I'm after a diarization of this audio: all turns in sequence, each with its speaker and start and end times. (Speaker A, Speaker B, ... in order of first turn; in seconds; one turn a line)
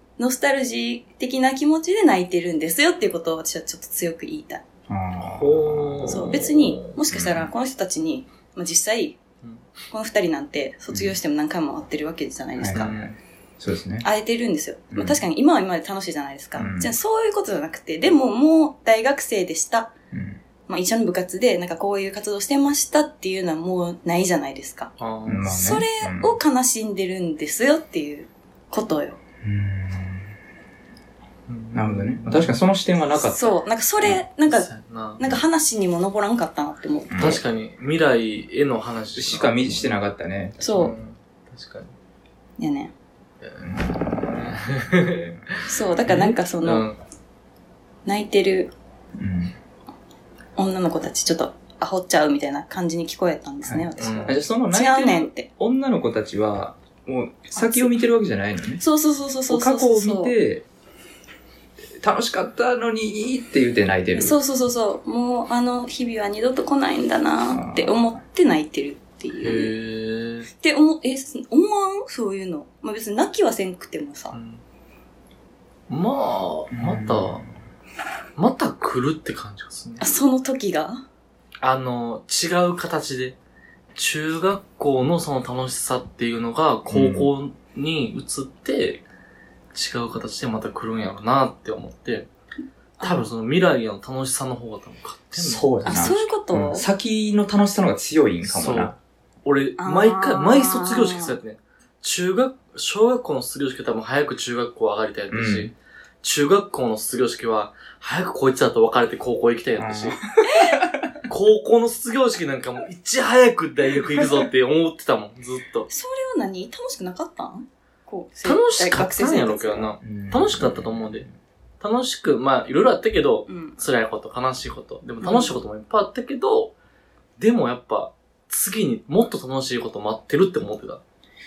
Speaker A: 0.2-4.6
Speaker B: 4.9-6.4
Speaker C: 5.2-7.0
Speaker A: 6.1-9.2
Speaker B: 7.1-7.5
Speaker A: 9.9-13.1
Speaker B: 12.6-14.1
Speaker C: 12.7-13.1
Speaker A: 14.0-19.9
Speaker B: 14.9-15.2
Speaker B: 16.6-16.9
Speaker B: 20.1-20.4
Speaker A: 20.7-29.2
Speaker C: 25.0-25.5
Speaker B: 25.2-26.4
Speaker B: 29.4-30.3
Speaker C: 31.5-32.6
Speaker B: 31.7-34.2
Speaker A: 33.1-37.3
Speaker C: 34.5-35.2
Speaker B: 37.1-37.4
Speaker C: 37.2-39.9
Speaker B: 39.1-40.9
Speaker A: 40.6-40.9
Speaker C: 40.7-41.9
Speaker A: 42.6-42.9
Speaker C: 43.4-47.0
Speaker B: 43.6-44.5
Speaker B: 45.1-45.5
Speaker A: 45.7-46.9
Speaker A: 48.0-48.7
Speaker B: 49.2-49.5
Speaker A: 50.5-55.5
Speaker B: 53.6-58.8
Speaker C: 54.0-54.4
Speaker A: 57.5-57.9
Speaker A: 58.8-60.3
Speaker B: 59.5-60.6
Speaker B: 62.0-64.4
Speaker A: 64.1-69.7
Speaker B: 67.5-68.2
Speaker C: 69.4-70.5
Speaker A: 70.6-74.3
Speaker C: 74.3-74.6
Speaker C: 75.9-77.4
Speaker B: 76.7-77.5
Speaker C: 78.3-80.1
Speaker A: 80.0-81.0
Speaker C: 81.6-83.3
Speaker C: 83.9-89.0
Speaker B: 86.9-87.3
Speaker C: 89.7-92.3
Speaker A: 93.0-93.3
Speaker C: 93.0-96.1
Speaker B: 95.3-98.9
Speaker A: 95.8-96.9
Speaker C: 98.4-110.2
Speaker A: 99.8-101.4
Speaker B: 105.3-105.7
Speaker B: 109.8-111.1
Speaker A: 110.4-110.8
Speaker C: 111.3-115.9
Speaker A: 115.9-120.0
Speaker C: 118.4-121.2
Speaker B: 120.0-121.3
Speaker C: 121.8-126.7
Speaker A: 123.5-123.8
Speaker A: 125.2-125.5
Speaker C: 127.4-131.0